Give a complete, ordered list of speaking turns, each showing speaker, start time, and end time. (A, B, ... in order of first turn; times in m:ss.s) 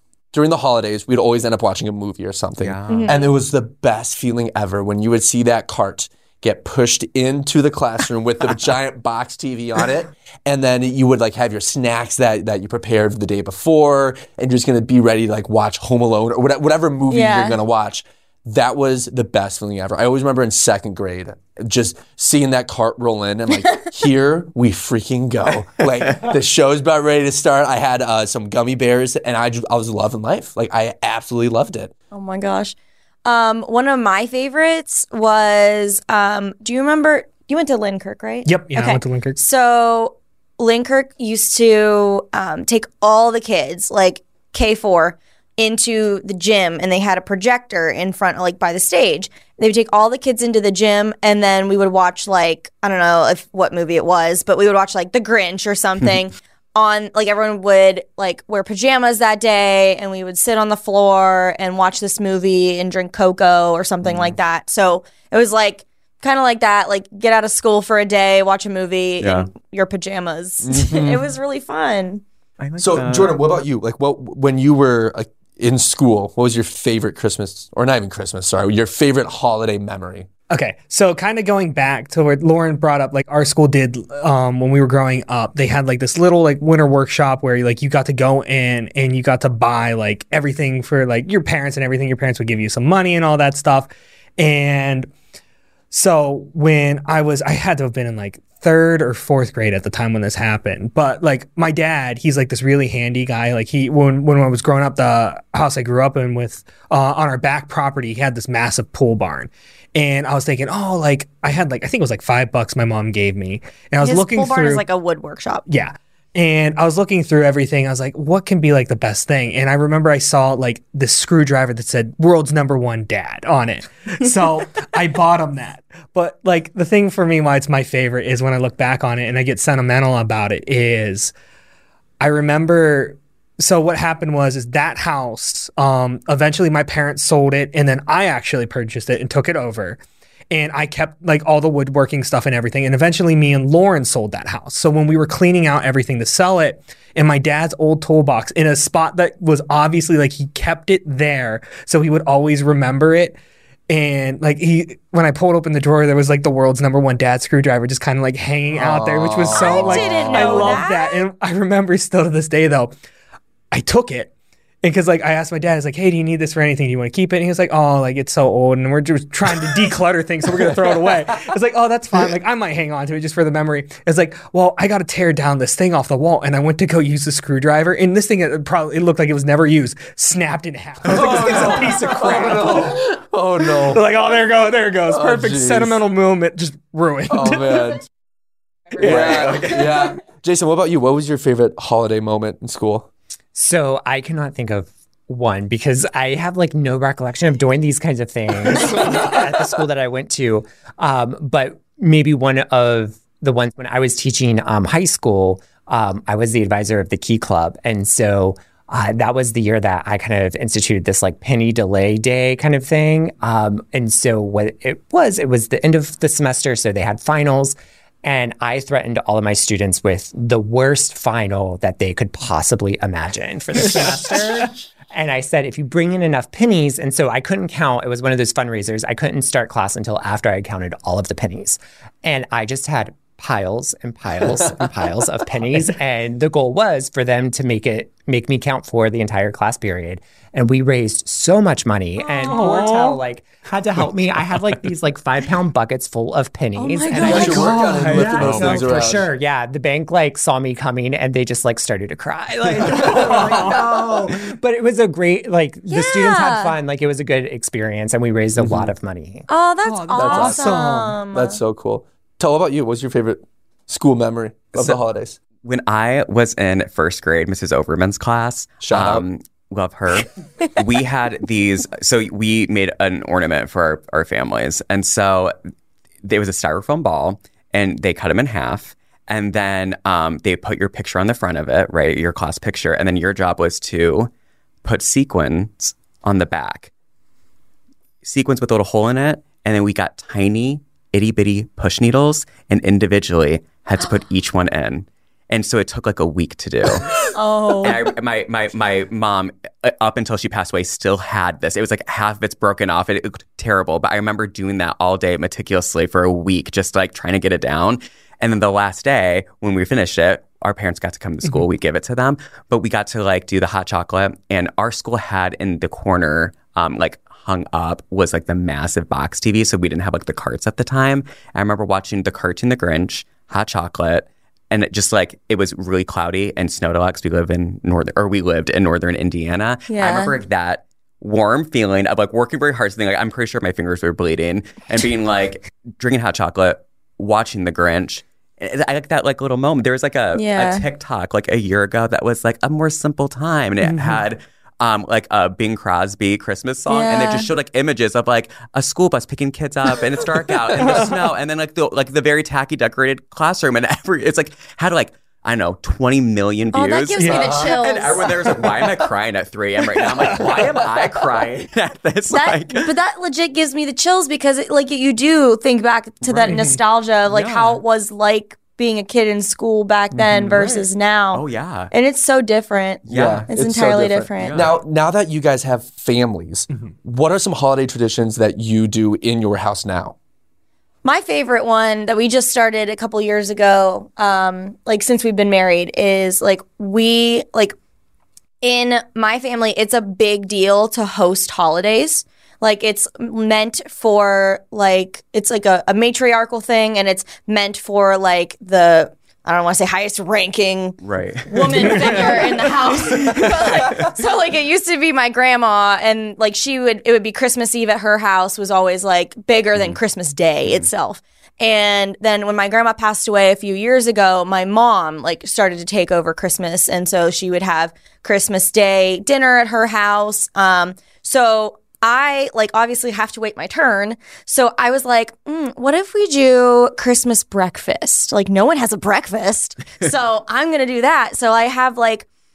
0:00.3-0:31.9 A
0:02.6-0:03.2 B
0:02.9-0:03.3 C
0:17.1-0:17.6 C
0:32.1-1:12.2 C
0:38.4-0:39.4 D
1:04.0-1:04.4 B
1:09.2-1:09.5 B
1:10.6-1:11.3 A
1:12.6-1:13.4 B
1:12.8-1:20.3 A
1:20.5-1:35.1 D
1:35.9-1:54.8 D
1:54.0-1:55.6 C
1:55.7-2:11.3 D
2:12.2-2:20.0 D
2:20.5-2:33.4 D
2:33.9-2:42.9 D
2:38.7-2:40.8 A
2:39.5-2:41.2 C
2:43.7-2:44.3 D
2:44.8-3:03.0 D
2:50.6-2:51.5 A
3:01.0-3:04.0 A
3:03.7-3:07.9 D
3:05.1-3:06.0 A
3:07.3-3:08.0 A
3:09.0-3:13.1 A
3:09.0-3:09.5 D
3:09.0-3:10.1 B
3:13.5-4:19.5 E
3:18.8-3:19.3 D
4:02.4-4:03.2 D
4:06.8-4:07.9 C
4:07.2-4:09.2 A
4:07.2-4:08.9 D
4:13.0-4:13.6 A
4:13.0-4:13.8 D
4:15.9-4:16.7 C
4:19.5-4:21.6 C
4:19.8-4:21.2 D
4:20.1-4:25.4 A
4:24.7-4:25.0 B
4:25.6-4:35.5 B
4:28.8-4:29.2 A
4:36.2-4:44.3 B
4:44.8-4:46.9 B
4:48.2-4:57.2 B
4:57.2-4:58.1 C
4:57.8-6:02.9 B
5:29.9-5:30.3 C
5:40.3-5:40.8 C
5:43.8-5:44.2 D
5:46.9-5:47.5 C
5:50.8-5:51.2 D
5:56.7-5:58.8 C
5:57.2-5:57.6 D
5:57.3-5:57.7 A
5:59.9-6:00.6 D
6:02.3-6:14.6 C
6:06.2-6:06.6 A
6:06.5-6:06.8 D
6:07.2-6:07.8 B
6:10.3-6:10.8 B
6:11.3-6:11.9 B
6:13.1-6:13.5 B
6:13.1-6:20.2 A
6:14.4-6:14.7 B
6:21.0-6:27.8 C
6:28.6-7:12.2 C
6:41.0-6:44.1 B
6:50.6-6:50.9 B